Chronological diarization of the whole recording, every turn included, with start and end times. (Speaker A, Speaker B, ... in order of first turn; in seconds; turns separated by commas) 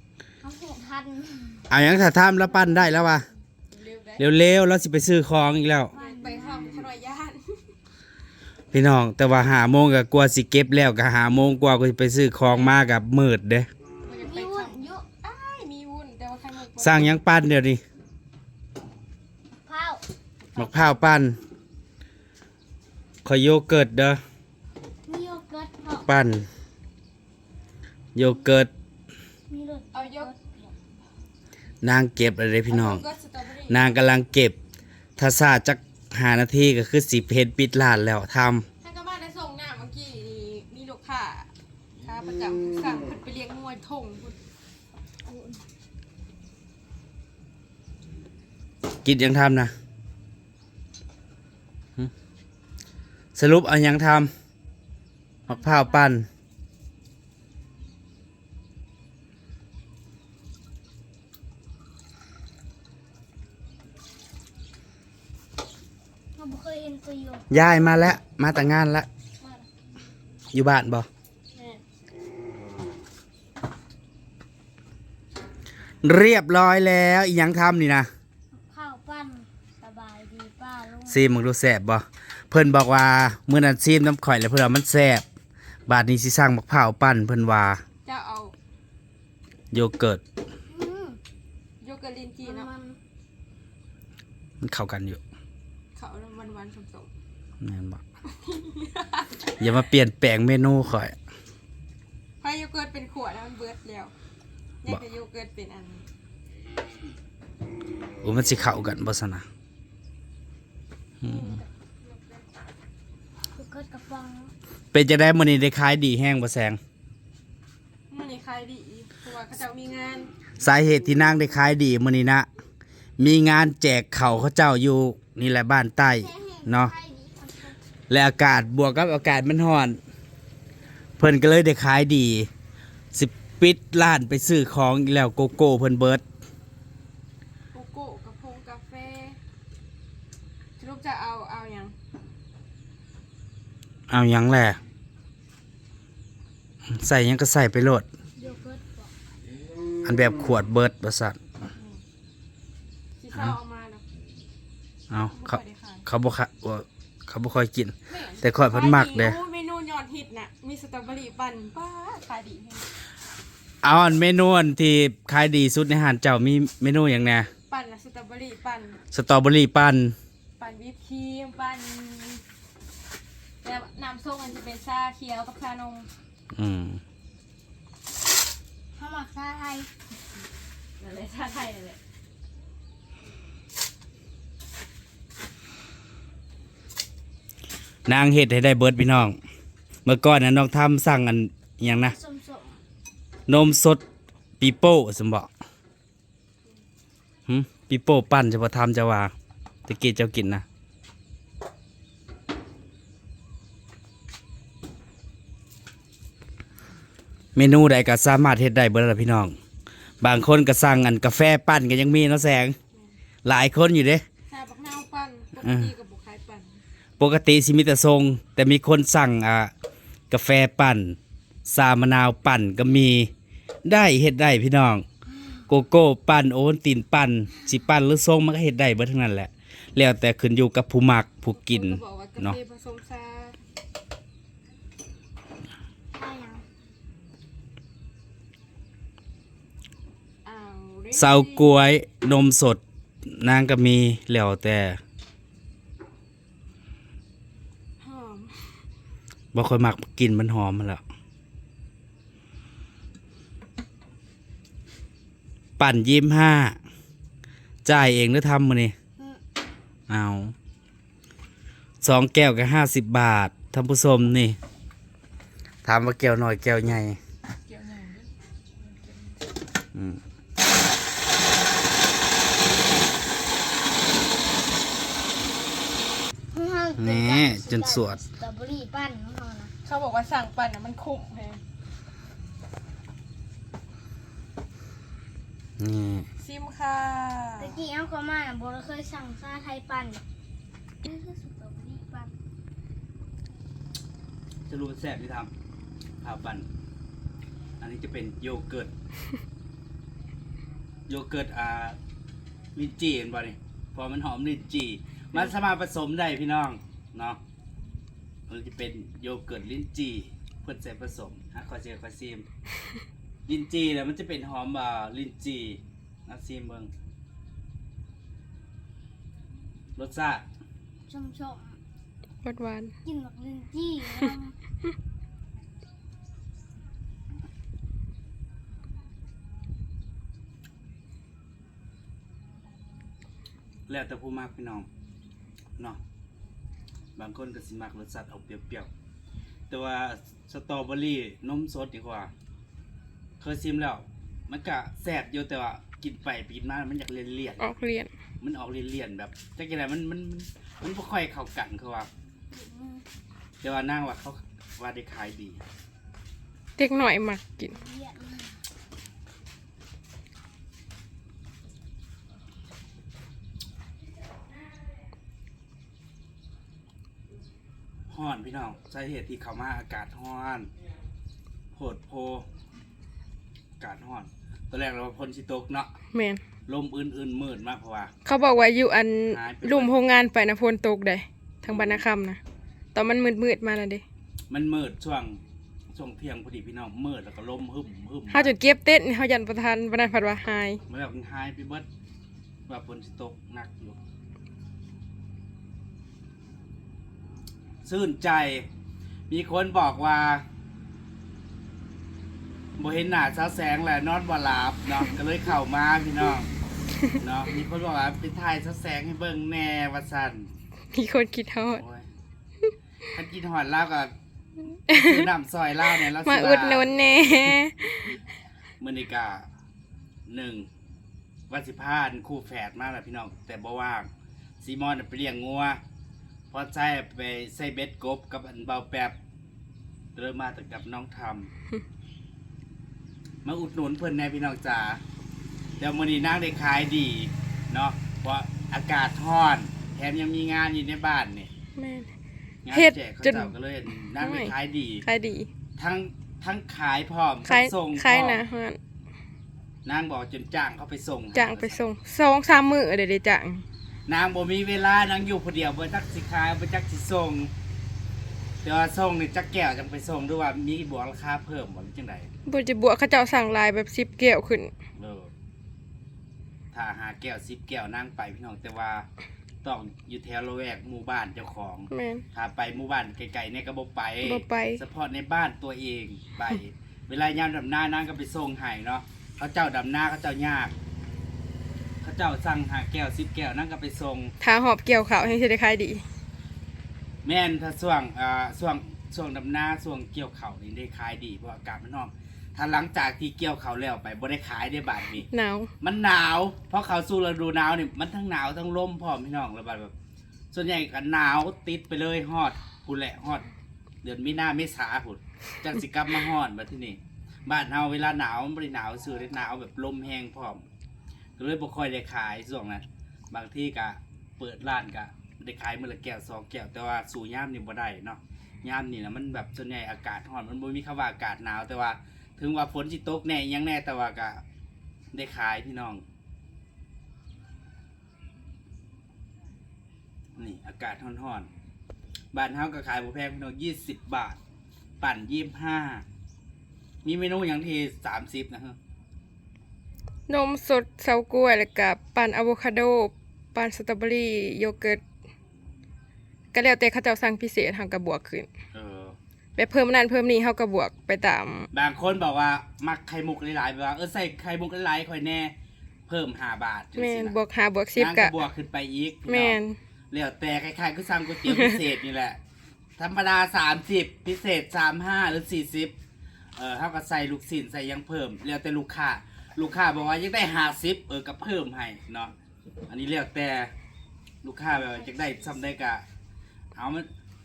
Speaker A: 0.4-1.8, Speaker B: 1.7-3.2, Speaker A: 2.4-3.1, Speaker C: 3.7-4.2, Speaker B: 4.2-5.9, Speaker A: 5.9-6.8, Speaker C: 5.9-7.4, Speaker B: 8.7-13.7, Speaker C: 14.1-17.1, Speaker A: 14.2-15.1, Speaker B: 16.8-17.8, Speaker A: 19.6-20.0, Speaker C: 20.5-21.1, Speaker B: 20.6-21.4, Speaker B: 23.2-24.2, Speaker A: 25.1-26.2, Speaker B: 26.0-26.5, Speaker B: 28.1-28.7, Speaker A: 29.5-30.5, Speaker C: 29.9-30.7, Speaker B: 31.8-33.0, Speaker C: 32.7-33.9, Speaker B: 33.7-34.6, Speaker B: 35.2-38.7, Speaker C: 38.8-41.5, Speaker C: 42.0-44.4, Speaker A: 45.3-45.6, Speaker B: 49.0-49.7, Speaker B: 53.3-54.3, Speaker A: 55.5-56.1, Speaker B: 55.5-56.3, Speaker A: 66.4-67.9, Speaker B: 67.5-69.1, Speaker C: 69.4-69.7, Speaker B: 70.5-71.1, Speaker C: 71.5-71.8, Speaker B: 76.0-78.1, Speaker A: 78.5-81.2, Speaker B: 81.0-85.2, Speaker B: 85.9-87.8, Speaker C: 88.0-88.5, Speaker B: 89.7-90.2, Speaker A: 90.7-91.2, Speaker C: 91.8-92.7, Speaker A: 92.4-93.0, Speaker B: 94.6-95.2, Speaker C: 96.0-97.1, Speaker B: 97.6-98.0, Speaker C: 98.4-99.2, Speaker B: 99.6-101.2, Speaker C: 102.4-104.1, Speaker C: 104.8-106.0, Speaker B: 108.2-109.5, Speaker C: 111.2-112.4, Speaker B: 111.2-111.5, Speaker A: 113.5-114.5, Speaker B: 114.9-116.8, Speaker C: 118.1-120.3, Speaker B: 120.6-122.5, Speaker B: 123.2-126.9, Speaker A: 126.2-127.8, Speaker B: 128.1-130.0, Speaker B: 131.2-132.5, Speaker B: 133.1-136.2, Speaker C: 137.7-139.3, Speaker C: 140.8-141.9, Speaker B: 144.1-144.8, Speaker B: 146.8-148.1, Speaker A: 148.4-149.1, Speaker B: 150.0-151.4, Speaker C: 151.7-152.0, Speaker C: 153.2-154.0, Speaker B: 155.1-159.4, Speaker C: 155.2-156.0, Speaker C: 158.1-162.9, Speaker B: 163.8-167.5, Speaker C: 167.7-169.0, Speaker B: 169.1-170.2, Speaker C: 170.6-172.4, Speaker C: 173.6-176.1, Speaker B: 176.5-177.0, Speaker A: 179.0-179.9, Speaker C: 181.0-182.0, Speaker B: 188.1-189.4, Speaker B: 190.0-192.2, Speaker A: 191.8-192.8, Speaker B: 193.5-194.0, Speaker B: 194.6-195.5, Speaker B: 197.5-199.3, Speaker B: 199.8-200.6, Speaker B: 207.5-209.6, Speaker B: 210.2-212.8, Speaker B: 213.4-214.2, Speaker C: 214.5-216.8, Speaker B: 215.6-215.9, Speaker B: 217.2-219.7, Speaker B: 220.3-223.3, Speaker B: 223.8-225.1, Speaker B: 225.7-232.6, Speaker C: 231.5-233.6, Speaker A: 236.1-236.6, Speaker C: 240.4-241.9, Speaker B: 241.1-245.0, Speaker C: 248.0-248.5, Speaker B: 249.5-251.0, Speaker B: 255.8-256.8, Speaker B: 257.8-258.9, Speaker B: 260.1-260.5, Speaker B: 262.0-264.6, Speaker B: 265.8-267.2, Speaker C: 267.7-268.3, Speaker B: 269.9-270.2, Speaker A: 276.5-279.7, Speaker B: 277.0-278.2, Speaker C: 279.8-281.6, Speaker B: 285.8-286.3, Speaker C: 286.4-287.7, Speaker A: 287.6-290.2, Speaker A: 291.0-292.3, Speaker B: 294.7-295.5, Speaker B: 296.2-296.7, Speaker B: 297.8-298.9, Speaker B: 301.1-302.0, Speaker B: 302.7-307.4, Speaker B: 308.5-312.4, Speaker B: 313.5-316.9, Speaker B: 319.9-320.4, Speaker A: 321.1-321.8, Speaker D: 322.4-322.9, Speaker A: 323.0-324.6, Speaker B: 333.9-334.9, Speaker B: 337.1-338.9, Speaker B: 339.7-342.3, Speaker B: 343.4-347.7, Speaker D: 347.6-348.1, Speaker B: 348.4-352.1, Speaker A: 352.5-353.0, Speaker B: 353.6-355.6, Speaker D: 356.8-357.7, Speaker A: 357.6-358.6, Speaker B: 368.1-370.7, Speaker B: 371.7-372.4, Speaker B: 373.8-375.9, Speaker D: 376.1-376.4, Speaker B: 376.7-378.1, Speaker D: 378.2-382.4, Speaker B: 379.3-379.9, Speaker B: 381.6-382.1, Speaker D: 382.9-384.0, Speaker B: 384.5-385.4, Speaker B: 385.9-388.6, Speaker D: 388.3-390.8, Speaker B: 390.9-391.9, Speaker B: 392.7-394.0, Speaker B: 397.8-398.7, Speaker B: 399.3-400.4, Speaker B: 402.8-406.5, Speaker B: 407.2-410.5, Speaker D: 410.9-411.8, Speaker B: 411.7-412.1, Speaker B: 413.1-414.1, Speaker B: 414.9-417.6, Speaker D: 414.9-415.2, Speaker D: 416.1-418.2, Speaker B: 418.8-419.5, Speaker B: 420.3-420.7, Speaker B: 421.5-424.1, Speaker B: 424.6-425.8, Speaker B: 426.5-429.1, Speaker B: 430.1-431.5, Speaker B: 433.4-435.0, Speaker B: 435.8-441.5, Speaker D: 441.8-442.1, Speaker B: 442.6-445.1, Speaker D: 442.7-443.5, Speaker D: 444.2-444.5, Speaker D: 445.1-445.5, Speaker B: 445.8-448.4, Speaker D: 447.4-448.8, Speaker B: 449.8-451.8, Speaker D: 451.3-453.6, Speaker B: 454.1-457.5, Speaker B: 458.6-462.3, Speaker D: 462.4-464.7, Speaker B: 465.0-465.3, Speaker B: 466.7-469.1, Speaker B: 469.6-480.7, Speaker D: 471.9-472.2, Speaker D: 474.2-474.8, Speaker B: 482.0-484.3, Speaker D: 484.4-486.0, Speaker B: 487.2-495.3, Speaker D: 495.3-495.7, Speaker B: 495.8-499.9, Speaker B: 500.5-503.5, Speaker B: 504.0-510.6, Speaker B: 511.4-524.4, Speaker B: 525.1-526.0, Speaker B: 530.4-531.5, Speaker B: 532.3-534.4, Speaker B: 535.0-536.0, Speaker B: 537.0-538.8, Speaker D: 540.3-545.0, Speaker D: 546.5-548.5, Speaker B: 548.7-549.1, Speaker D: 549.6-551.7, Speaker B: 551.7-555.5, Speaker B: 556.1-557.4, Speaker D: 557.0-558.3, Speaker B: 558.0-559.6, Speaker D: 559.3-559.8, Speaker B: 560.1-562.4, Speaker B: 563.0-565.9, Speaker B: 566.5-572.3, Speaker B: 572.9-573.7, Speaker B: 574.4-576.0, Speaker B: 576.8-577.1